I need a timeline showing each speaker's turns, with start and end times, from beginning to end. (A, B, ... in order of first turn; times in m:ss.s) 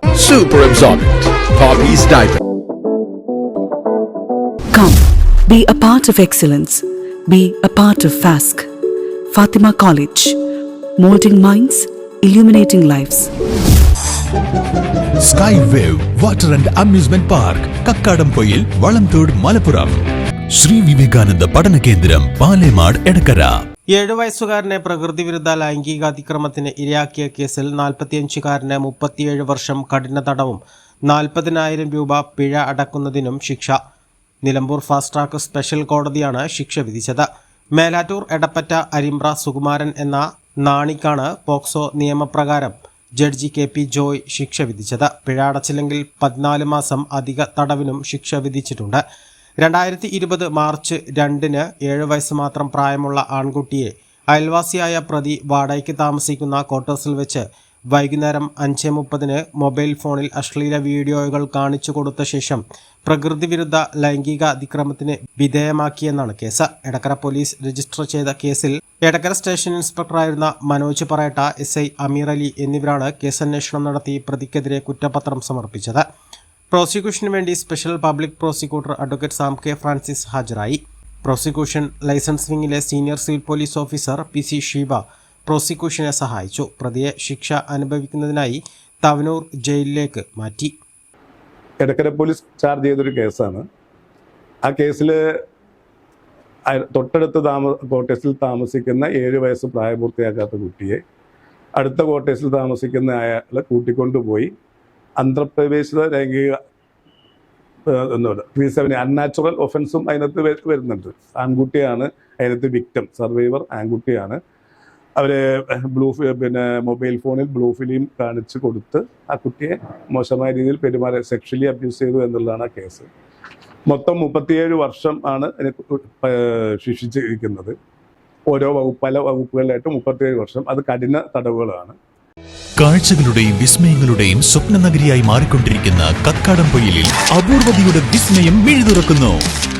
0:00.1-0:02.4 A
0:04.7-0:08.7 B
0:09.3-0:10.4 B
0:11.0-0:13.3 B
0:15.2-0:23.6 C
0:23.9-0:33.8 D
0:34.4-0:49.0 D
0:49.6-1:16.0 D
1:16.7-1:30.7 D
1:31.8-1:33.6 E
1:34.6-1:35.2 E
1:36.7-1:41.0 E
1:41.8-1:44.5 E
1:45.2-1:46.6 E
1:47.9-1:54.4 E
1:55.2-2:03.1 E
2:03.9-2:07.7 E
2:08.5-2:11.9 E
2:12.8-2:19.4 C